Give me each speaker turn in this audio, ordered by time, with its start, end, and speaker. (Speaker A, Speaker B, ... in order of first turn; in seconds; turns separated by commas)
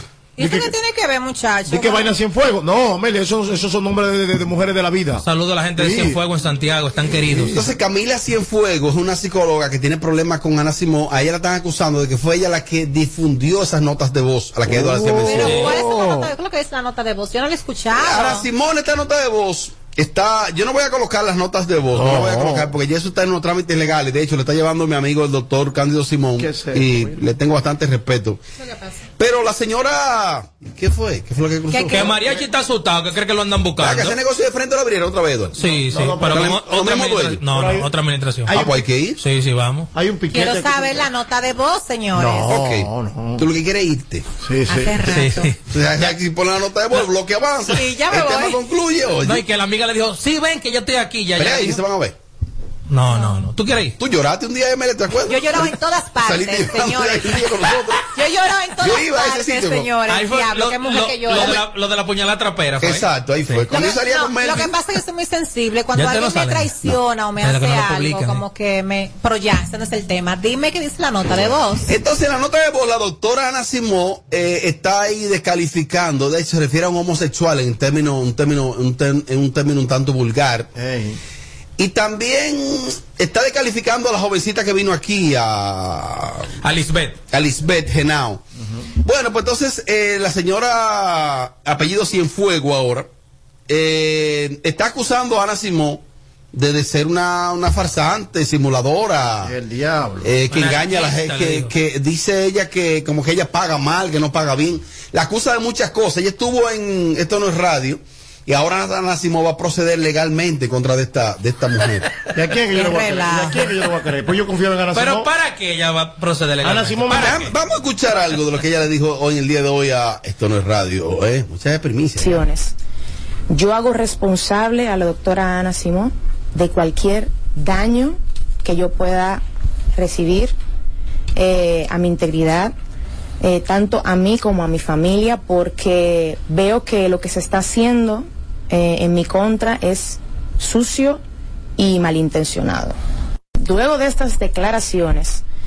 Speaker A: 0.4-2.1, Speaker B: 0.4-0.7, Speaker B: 1.7-5.2, Speaker C: 5.2-7.5, Speaker B: 5.8-6.2, Speaker B: 7.1-7.6, Speaker D: 7.5-15.7, Speaker B: 14.7-16.3, Speaker A: 15.2-18.4, Speaker C: 15.4-15.8, Speaker D: 17.9-28.4, Speaker B: 21.9-22.7, Speaker B: 26.4-27.2, Speaker A: 28.6-29.1, Speaker D: 29.2-32.2, Speaker A: 31.7-32.1, Speaker C: 31.9-34.1, Speaker D: 33.8-35.5, Speaker C: 35.5-38.5, Speaker B: 35.6-36.6, Speaker D: 36.1-37.4, Speaker B: 37.4-37.9, Speaker B: 38.5-38.8, Speaker D: 38.5-39.2, Speaker C: 39.2-39.9, Speaker B: 39.9-41.0, Speaker A: 40.3-42.5, Speaker B: 42.1-43.5, Speaker D: 42.5-44.2, Speaker B: 44.4-45.2, Speaker A: 44.7-45.5, Speaker C: 45.1-46.1, Speaker D: 45.7-49.4, Speaker A: 47.7-48.6, Speaker C: 49.2-51.8, Speaker D: 51.4-52.1, Speaker C: 52.9-54.0, Speaker A: 53.1-53.4, Speaker D: 54.0-58.1, Speaker A: 55.3-57.4, Speaker A: 58.1-61.6, Speaker D: 58.8-59.9, Speaker C: 60.1-63.6, Speaker D: 61.3-61.6, Speaker D: 62.8-64.7, Speaker A: 63.7-71.9, Speaker C: 65.9-68.4, Speaker D: 71.9-80.7, Speaker B: 80.8-81.2, Speaker D: 81.8-86.5, Speaker C: 86.6-87.2, Speaker D: 87.3-88.4, Speaker D: 89.0-93.1, Speaker D: 93.7-99.5, Speaker B: 99.4-100.3, Speaker D: 100.2-112.2, Speaker C: 100.5-101.7, Speaker B: 112.3-115.3, Speaker A: 112.7-113.7, Speaker C: 114.9-117.5, Speaker B: 116.6-117.4, Speaker D: 117.1-122.3, Speaker E: 122.2-122.7, Speaker E: 123.5-130.5, Speaker E: 131.3-132.7, Speaker E: 133.4-141.2, Speaker E: 141.8-142.9, Speaker E: 143.6-145.4